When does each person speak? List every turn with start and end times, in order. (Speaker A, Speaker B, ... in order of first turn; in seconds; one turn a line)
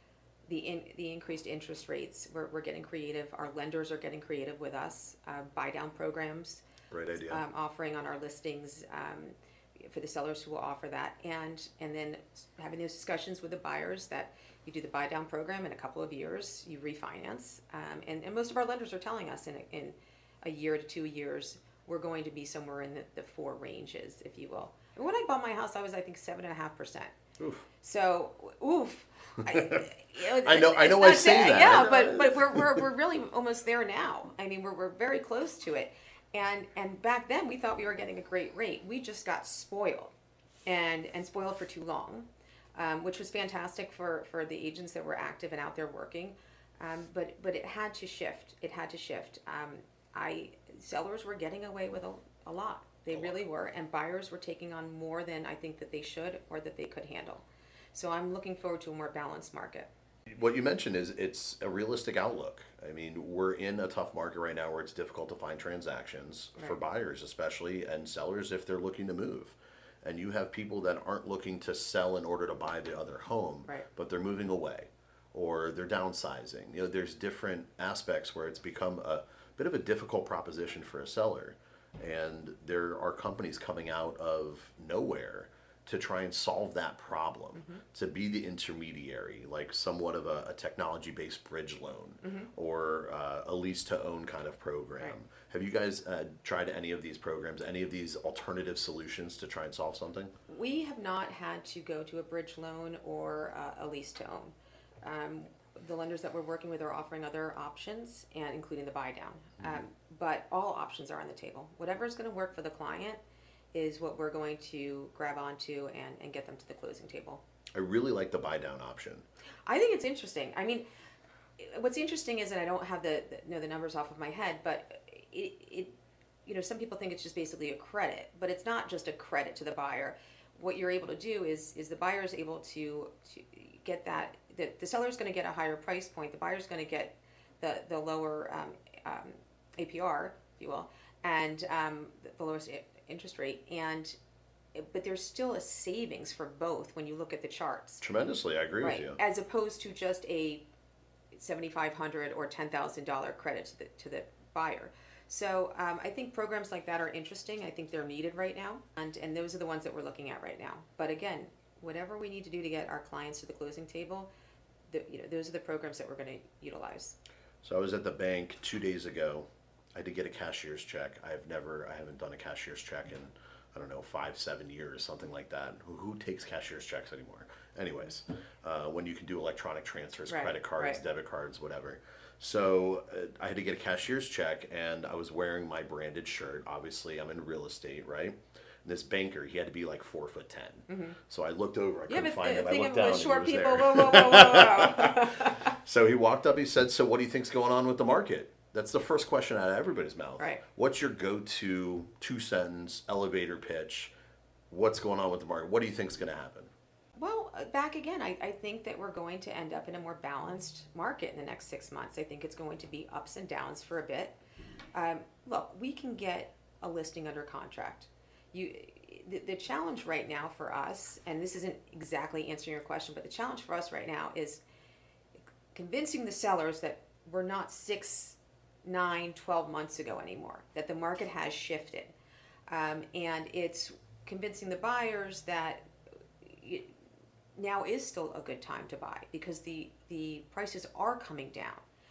Speaker A: 0.5-6.6
Speaker B: 6.9-7.4
Speaker A: 7.1-27.1
Speaker B: 27.4-27.6
Speaker A: 27.8-40.1
Speaker B: 29.4-32.9
Speaker A: 40.6-59.9
Speaker B: 53.1-53.4
Speaker B: 60.3-100.3
Speaker A: 87.5-87.8
Speaker A: 92.2-92.5
Speaker A: 100.5-113.2
Speaker A: 113.7-117.4
Speaker B: 117.7-119.2
Speaker A: 119.7-120.8
Speaker A: 121.6-125.9
Speaker A: 126.5-144.1
Speaker A: 144.7-148.0
Speaker B: 148.0-149.2
Speaker A: 148.8-150.6
Speaker A: 151.3-164.3
Speaker A: 164.9-167.2
Speaker B: 167.6-204.1
Speaker A: 180.3-181.0
Speaker A: 190.9-191.2
Speaker A: 192.1-195.7
Speaker B: 204.7-206.7
Speaker A: 207.2-214.4
Speaker A: 214.9-224.6
Speaker A: 225.7-232.1
Speaker A: 232.7-235.8
Speaker A: 236.4-236.9
Speaker A: 237.6-241.8